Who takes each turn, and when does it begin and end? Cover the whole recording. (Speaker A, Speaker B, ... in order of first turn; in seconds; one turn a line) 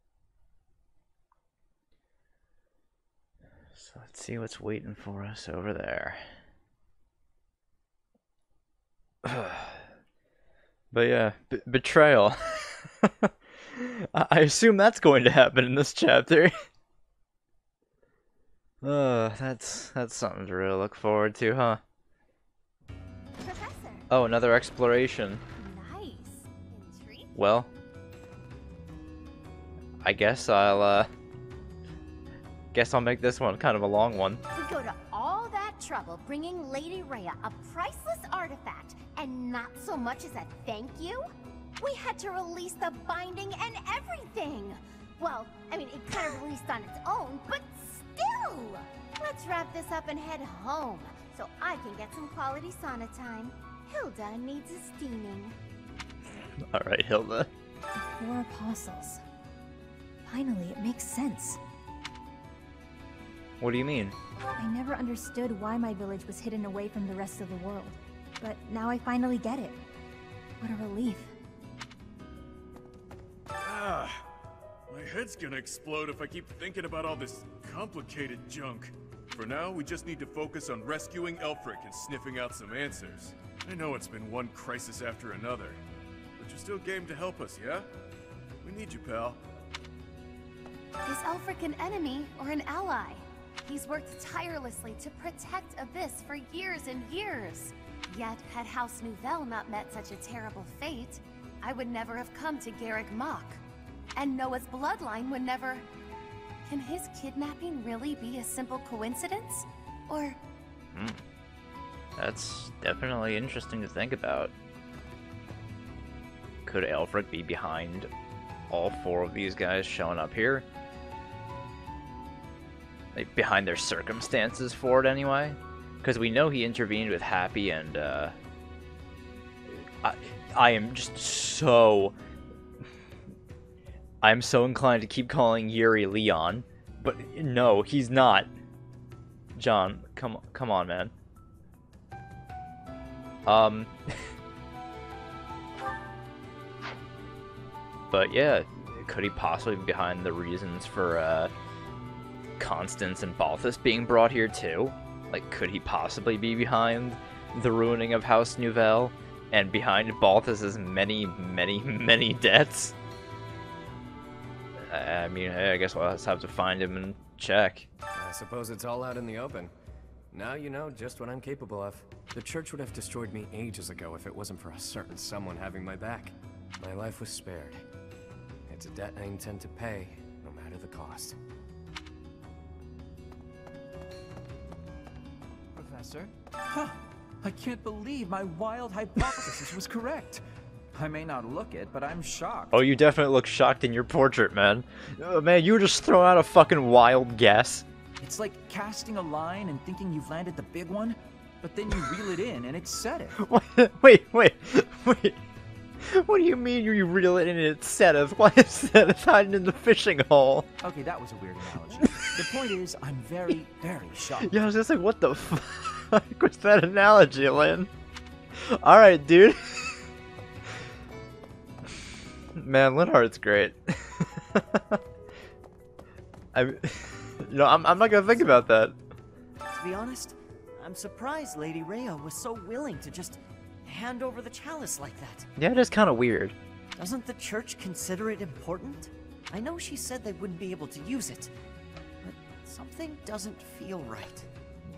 Speaker A: 3.8-6.2
Speaker A: 9.2-9.8
Speaker A: 10.9-16.6
Speaker A: 18.8-21.8
Speaker B: 23.4-24.1
Speaker A: 24.1-25.4
Speaker B: 25.6-27.4
Speaker A: 27.4-27.7
Speaker A: 30.0-31.1
Speaker A: 32.7-34.4
Speaker B: 34.6-41.2
Speaker B: 41.8-55.6
Speaker A: 56.7-57.5
Speaker C: 58.2-59.2
Speaker C: 60.3-61.6
Speaker A: 63.6-64.2
Speaker C: 64.6-69.8
Speaker C: 70.6-71.3
Speaker D: 73.6-74.2
Speaker D: 74.9-85.8
Speaker D: 86.4-87.9
Speaker D: 88.6-89.4
Speaker B: 91.0-103.6
Speaker B: 104.2-105.8
Speaker B: 106.7-110.4
Speaker A: 110.9-111.2
Speaker A: 112.2-114.5
Speaker A: 116.7-118.1
Speaker A: 118.7-120.7
Speaker A: 123.1-128.3
Speaker A: 129.7-132.1
Speaker A: 134.2-138.5
Speaker A: 139.6-141.1
Speaker A: 143.5-143.9
Speaker A: 148.1-151.5
Speaker A: 152.6-162.9
Speaker A: 164.9-167.9
Speaker E: 168.1-169.7
Speaker E: 170.3-177.8
Speaker E: 178.7-181.4
Speaker F: 185.8-190.4
Speaker F: 190.9-192.8
Speaker A: 192.7-197.9
Speaker F: 198.2-203.4
Speaker A: 203.4-205.4
Speaker A: 206.0-210.7
Speaker F: 210.8-214.7
Speaker A: 214.4-217.9
Speaker A: 218.6-220.0
Speaker A: 222.6-225.0
Speaker A: 226.5-228.9
Speaker G: 229.7-235.5
Speaker A: 235.6-236.6
Speaker G: 237.0-241.5
Speaker G: 242.2-244.5